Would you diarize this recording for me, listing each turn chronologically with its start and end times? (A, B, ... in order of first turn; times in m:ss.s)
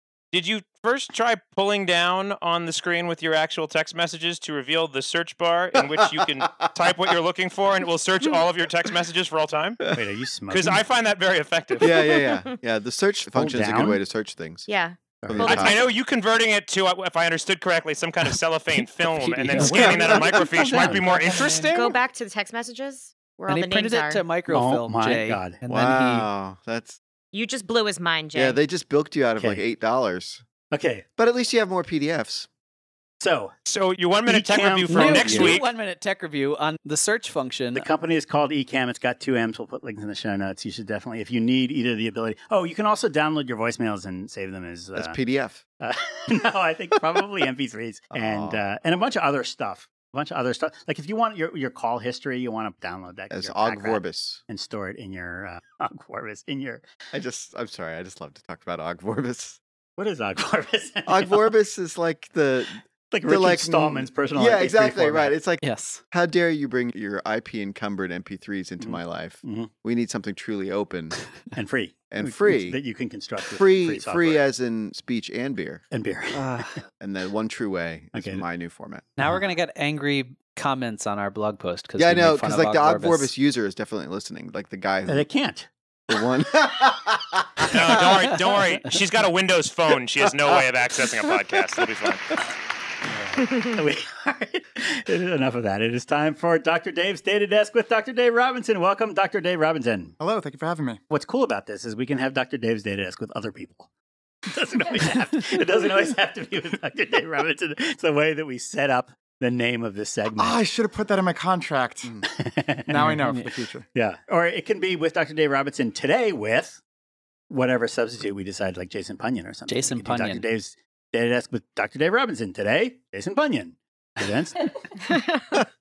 0:00.3-0:09.9 A
0:05.8-0:06.3 B
0:09.9-0:10.8 C
0:10.5-0:12.1 A
0:11.8-0:14.7 B
0:11.9-0:12.6 D
0:13.3-0:14.0 C
0:14.7-0:15.8 D
0:15.2-0:15.6 C
0:15.2-0:15.9 B
0:15.4-0:22.0 A
0:19.0-0:21.8 E
0:19.6-0:21.6 C
0:19.7-0:20.4 B
0:21.7-0:24.2 D
0:23.5-0:26.3 E
0:24.5-0:25.6 C
0:25.7-0:27.0 B
0:27.3-0:28.6 D
0:28.3-0:30.4 B
0:29.4-0:29.6 C
0:30.7-0:31.0 C
0:31.2-0:32.5 B
0:33.2-0:33.5 C
0:33.7-0:35.7 A
0:34.3-0:35.6 C
0:34.9-0:37.9 E
0:37.7-0:45.2 C
0:45.0-0:45.6 B
0:45.8-0:56.8 C
0:48.1-0:48.6 B
0:53.3-0:54.4 B
0:57.1-0:59.6 B
1:00.0-1:01.5 C
1:01.1-1:11.2 B
1:03.1-1:05.4 C
1:05.6-1:06.0 E
1:08.8-1:09.7 C
1:11.5-1:14.5 C
1:12.1-1:12.8 B
1:13.6-1:15.8 B
1:15.9-1:16.8 C
1:16.4-1:19.1 B
1:18.1-1:18.4 C
1:19.2-1:23.3 E
1:22.0-1:25.3 B
1:25.1-1:25.7 C
1:26.1-1:28.2 B
1:27.7-1:32.3 A
1:33.1-1:40.2 C
1:40.2-1:41.0 F
1:41.1-1:43.9 C
1:44.5-1:50.6 C
1:50.4-1:52.2 F
1:52.3-1:53.2 C
1:52.9-1:53.8 F
1:53.9-1:56.8 C
1:57.5-2:04.7 C
1:59.7-2:00.5 E